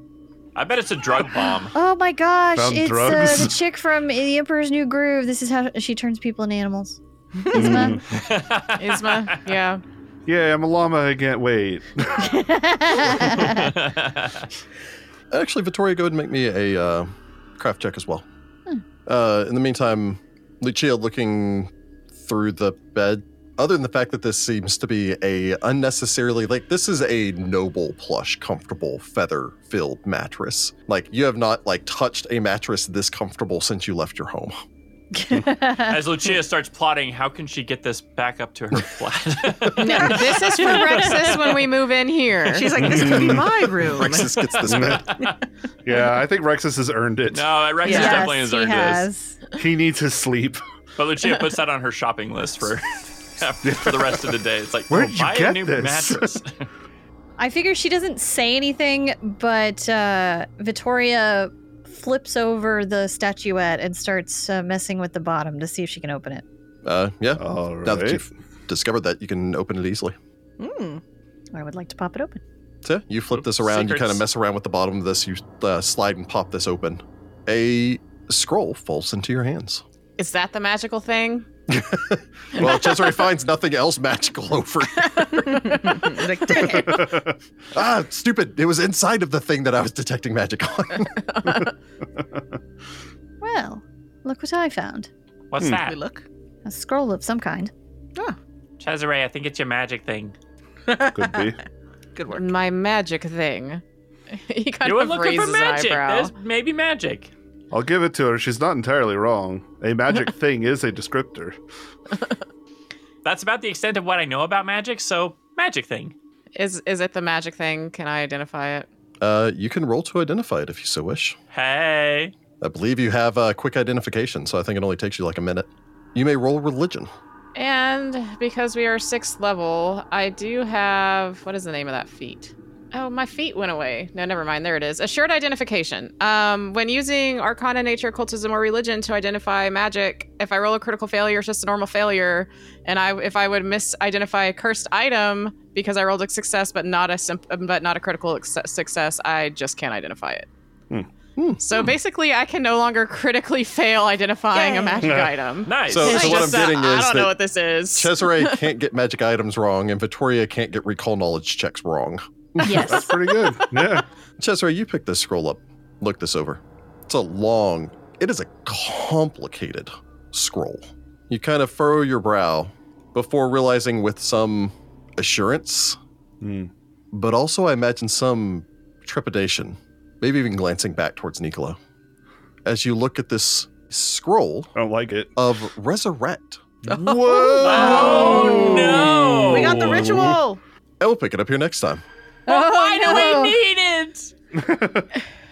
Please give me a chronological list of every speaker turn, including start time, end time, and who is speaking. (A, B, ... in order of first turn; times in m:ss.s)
0:00.6-0:01.7 A
0:01.7-0:08.0 B
0:02.6-0:03.6 C
0:07.4-0:07.9 D
0:07.5-0:08.1 C
0:08.1-0:09.5 A
0:08.8-0:09.8 E
0:10.3-0:12.4 C
0:12.2-0:13.7 B
0:13.2-0:13.6 C
0:13.5-0:14.5 A
0:15.3-0:18.3 F
0:19.1-0:34.6 F
0:35.2-0:36.0 B
0:35.8-0:41.4 A
0:39.8-0:42.9 E
0:39.8-0:40.2 B
0:42.5-0:44.3 D
0:42.8-0:43.6 C
0:43.8-0:45.1 F
0:44.5-0:45.2 A
0:44.7-0:45.1 C
0:45.8-0:47.5 C
0:47.3-0:49.1 A
0:47.8-0:49.4 B
0:47.8-0:48.3 D
0:49.6-0:50.6 C
0:51.0-0:56.7 A
0:53.6-0:54.3 C
0:54.9-0:56.4 C
0:57.4-1:06.4 B
1:06.8-1:10.2 F
1:07.4-1:08.2 C
1:10.6-1:11.0 D
1:11.5-1:12.4 B
1:12.8-1:19.8 F
1:13.4-1:14.2 A
1:20.2-1:21.5 E
1:21.7-1:25.7 F
1:25.4-1:27.2 D
1:26.7-1:27.3 C
1:27.7-1:31.2 F
1:32.2-1:32.4 C
1:33.4-1:35.1 B
1:35.5-1:36.0 A
1:35.6-1:36.3 D
1:36.6-1:37.7 B
1:38.8-1:40.3 A
1:40.9-1:41.5 D
1:41.1-1:41.6 C
1:42.2-1:42.5 D
1:42.3-1:46.3 E
1:44.8-1:47.3 A
1:47.7-1:51.6 C
1:53.2-1:56.2 A
1:56.6-1:58.9 E
1:59.2-2:01.4 F
2:01.5-2:02.3 A
2:02.6-2:07.1 F
2:07.6-2:30.5 E
2:31.4-2:31.9 F
2:31.6-2:38.7 E
2:34.5-2:35.3 D
2:35.1-2:35.3 C
2:35.7-2:36.6 A
2:35.9-2:37.4 F
2:38.0-2:43.0 F
2:42.6-2:43.2 B
2:42.6-2:44.1 C
2:44.4-2:56.0 F
2:56.4-2:56.7 C
2:57.1-3:01.8 F
3:02.6-3:04.7 F
3:04.8-3:05.4 C
3:05.4-3:06.7 F
3:06.8-3:10.4 C
3:06.9-3:10.6 D
3:07.6-3:10.4 A
3:07.7-3:09.0 B
3:11.0-3:12.0 F
3:12.5-3:13.6 B
3:12.5-3:14.3 A
3:14.5-3:15.1 C